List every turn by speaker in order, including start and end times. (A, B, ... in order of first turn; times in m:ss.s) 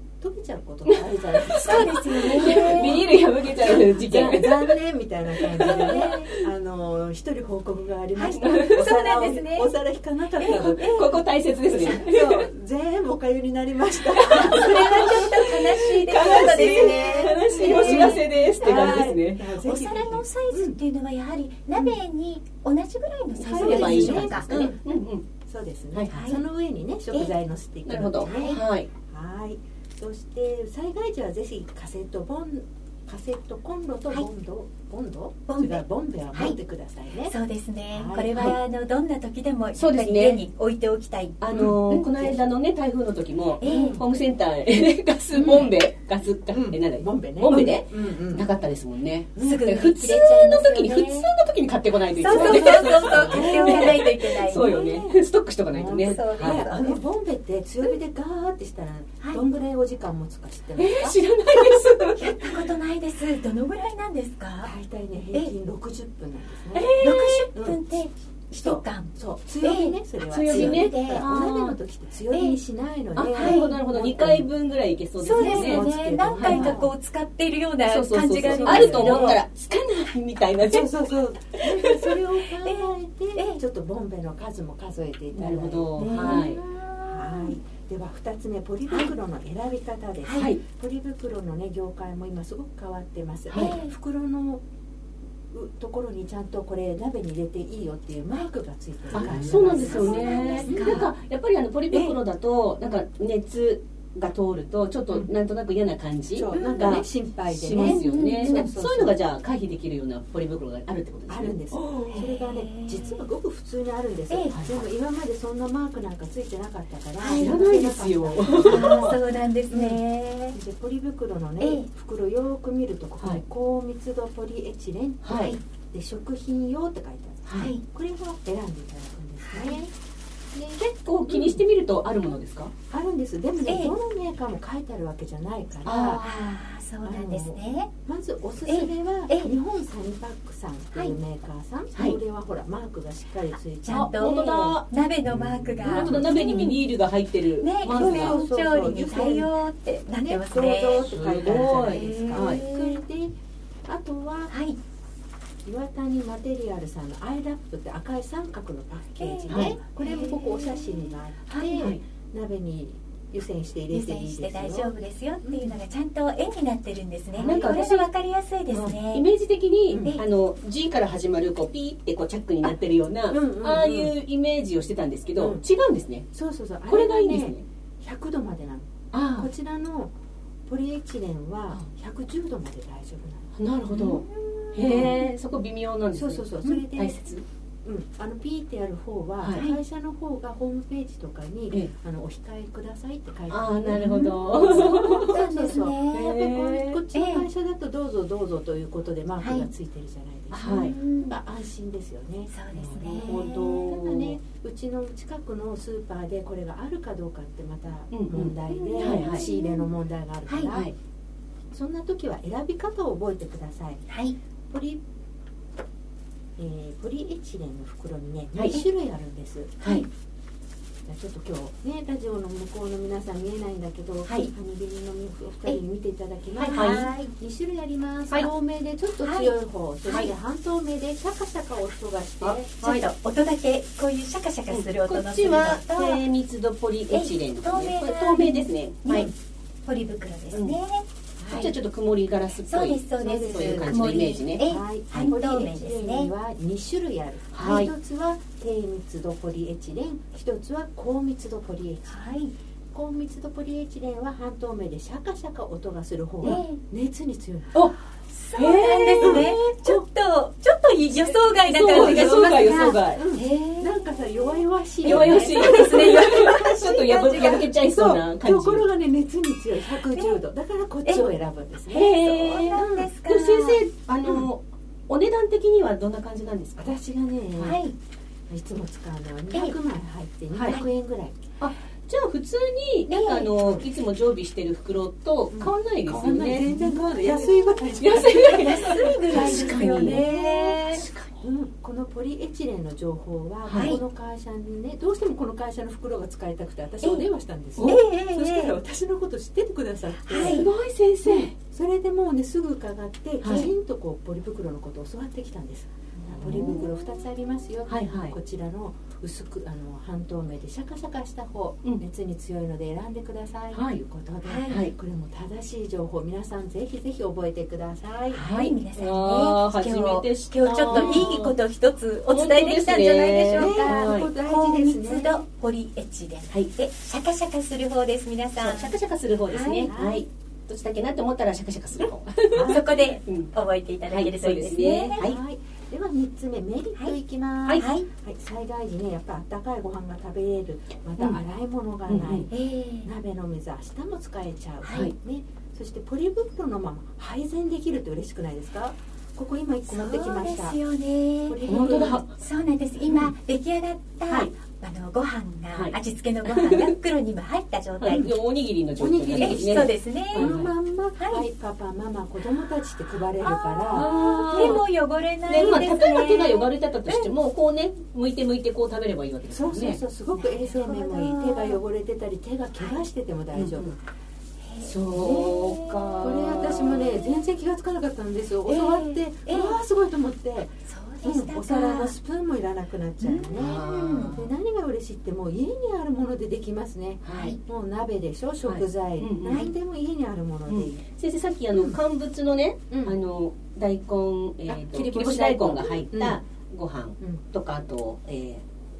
0:00.2-0:15.3 A
0:00.9-0:04.8 B
0:01.6-0:03.0 C
0:05.4-0:06.4 B
0:05.6-0:06.3 C
0:08.2-0:09.7 C
0:08.4-0:08.9 B
0:10.4-0:11.0 C
0:10.5-0:12.5 B
0:14.1-0:19.4 B
0:14.3-0:24.7 C
0:16.1-0:20.8 A
0:23.4-0:25.2 B
0:23.5-0:37.3 A
0:25.9-0:26.2 B
0:26.1-0:26.4 C
0:27.9-0:28.9 B
0:28.2-0:28.6 C
0:35.5-0:35.8 C
0:37.3-0:42.3 C
0:37.9-0:38.6 A
0:39.8-0:40.4 B
0:41.4-0:56.6 B
0:41.5-0:41.8 A
0:43.6-0:44.0 C
0:45.3-0:45.7 A
0:46.5-0:48.5 A
0:49.4-0:49.7 A
0:49.4-0:51.3 C
0:52.2-0:54.8 C
0:52.2-0:55.2 A
0:55.7-1:01.8 A
0:56.0-0:57.0 C
1:00.8-1:02.6 B
1:02.2-1:04.7 C
1:04.6-1:07.0 A
1:06.8-1:07.5 B
1:07.0-1:11.3 C
1:07.5-1:07.8 A
1:08.6-1:14.5 A
1:10.3-1:11.8 B
1:12.3-1:12.6 C
1:13.2-1:16.8 B
1:13.4-1:13.8 C
1:15.2-1:19.4 C
1:15.2-1:16.9 A
1:17.8-1:20.9 B
1:18.4-1:19.4 A
1:20.7-1:34.6 A
1:21.6-1:22.2 B
1:22.6-1:23.6 C
1:25.3-1:26.6 B
1:26.0-1:27.6 C
1:30.2-1:30.5 C
1:30.3-1:30.6 B
1:33.5-1:33.8 B
1:33.5-1:33.9 C
1:35.5-1:41.1 A
1:39.1-1:52.1 B
1:39.4-1:41.1 C
1:46.3-1:49.2 A
1:46.5-1:47.0 C
1:47.8-1:48.7 C
1:51.3-2:00.0 A
1:52.0-1:53.2 C
1:54.3-1:54.6 C
1:54.5-1:54.8 B
1:57.2-1:57.6 C
1:57.4-1:59.2 B
1:58.5-2:00.6 C
2:00.5-2:09.9 A
2:01.6-2:01.9 C
2:05.2-2:05.6 B
2:05.3-2:05.6 C
2:07.5-2:07.7 B
2:07.6-2:07.8 C
2:09.4-2:09.9 C
2:10.5-2:11.6 A
2:10.8-2:12.7 B
2:12.9-2:16.4 A
2:13.7-2:14.0 C
2:15.8-2:16.3 B
2:15.9-2:17.9 C
2:17.0-2:24.4 A
2:18.7-2:19.5 C
2:23.8-2:26.8 C
2:23.9-2:24.9 B
2:25.8-2:28.4 B
2:25.8-2:26.8 A
2:27.6-2:33.0 C
2:27.9-2:29.5 A
2:30.2-2:33.3 A
2:31.0-2:32.7 B
2:33.9-2:34.5 A
2:34.5-2:34.8 C
2:35.6-2:45.8 A
2:39.2-2:41.9 C
2:39.5-2:39.8 B
2:41.8-2:42.0 B
2:43.9-2:49.3 C
2:47.4-2:47.8 A
2:47.4-2:48.1 B
2:48.7-2:56.3 B
2:49.9-2:50.2 A
2:50.0-2:50.2 C
2:53.3-2:54.2 A
2:55.4-2:55.6 A
2:56.3-3:00.1 A
2:56.9-2:57.6 B
2:59.1-2:59.5 B
3:00.7-3:05.2 A
3:03.6-3:07.4 B
3:03.9-3:04.3 C
3:04.9-3:05.2 C
3:06.1-3:07.2 A
3:07.8-3:30.9 A
3:13.5-3:15.4 B
3:13.9-3:16.4 C
3:16.1-3:17.0 B
3:17.1-3:17.5 C
3:19.4-3:19.7 C
3:20.5-3:21.0 B
3:20.6-3:21.4 C
3:22.5-3:23.7 C
3:22.8-3:24.4 B
3:28.1-3:29.5 B
3:28.7-3:29.9 C
3:30.5-3:30.8 C
3:30.7-3:30.9 B
3:31.7-3:34.0 A
3:34.1-3:34.4 C
3:34.7-3:35.0 A
3:36.6-3:39.8 A
3:38.6-3:38.8 B
3:39.8-3:40.1 C
3:41.1-3:52.7 A
3:46.6-3:47.3 C
3:46.7-3:47.1 B
3:49.2-3:49.5 C
3:50.1-3:50.3 C
3:52.4-3:53.0 B
3:52.8-3:56.3 C
3:54.7-3:59.3 B
3:57.1-3:59.3 C
3:59.9-4:01.7 C
4:00.5-4:00.8 B
4:01.4-4:01.7 A
4:01.5-4:04.6 B
4:02.7-4:06.3 C
4:03.2-4:04.1 A
4:04.6-4:12.2 A
4:07.5-4:07.9 B
4:12.1-4:12.5 C
4:12.9-4:17.8 A
4:16.4-4:16.8 C
4:18.3-4:24.2 C
4:18.5-4:19.7 B
4:19.2-4:19.9 A
4:21.3-4:23.2 B
4:21.8-4:26.6 A
4:25.0-4:27.7 C
4:25.0-4:28.9 B
4:27.3-4:33.1 A
4:30.1-4:30.4 C
4:31.9-4:36.9 B
4:32.2-4:33.9 C
4:36.8-4:37.8 A
4:37.6-4:38.0 C
4:38.5-4:41.4 A
4:40.5-4:40.8 B
4:41.6-4:50.2 B
4:43.1-4:43.8 C
4:45.5-4:50.8 A
4:46.7-4:47.0 C
4:48.2-4:51.1 C
4:50.9-4:51.3 B
4:51.4-5:00.7 A
4:53.7-4:53.9 B
4:53.7-4:54.0 C
4:57.8-4:58.8 C
5:00.3-5:00.7 C
5:00.3-5:01.5 B
5:01.3-5:18.5 A
5:03.4-5:03.7 B
5:06.2-5:06.8 C
5:06.4-5:06.9 B
5:07.9-5:08.4 B
5:13.7-5:14.0 B
5:14.4-5:14.8 C
5:14.7-5:14.9 B
5:18.3-5:21.6 B
5:18.4-5:28.9 C
5:20.9-5:21.4 A
5:22.3-5:24.3 B
5:23.6-5:25.4 A
5:28.6-5:33.5 B
5:29.5-5:29.9 C
5:29.9-5:30.3 A
5:32.5-5:33.0 A
5:32.6-5:35.3 C
5:34.1-5:35.4 B
5:34.8-5:50.8 A
5:37.8-5:38.1 C
5:42.1-5:42.5 B
5:42.5-5:43.1 C
5:44.8-5:45.1 C
5:49.9-5:58.3 C
5:51.5-5:52.2 A
5:51.7-5:52.4 B
5:56.5-5:56.9 B
5:58.0-6:00.7 B
5:59.0-6:04.8 A
5:59.4-6:00.6 C
6:01.2-6:01.5 C
6:03.4-6:07.3 C
6:03.9-6:04.8 B
6:05.5-6:10.0 B
6:09.5-6:14.0 A
6:10.3-6:11.8 C
6:13.5-6:13.9 B
6:14.7-6:16.1 C
6:14.8-6:17.2 B
6:15.1-6:31.0 A
6:18.7-6:19.8 C
6:20.8-6:22.1 C
6:23.2-6:24.3 C
6:23.6-6:24.5 B
6:27.2-6:27.6 B
6:27.3-6:27.6 C
6:28.6-6:29.7 B
6:29.4-6:29.7 C
6:30.7-6:38.6 B
6:32.9-6:33.2 A
6:34.7-6:36.4 A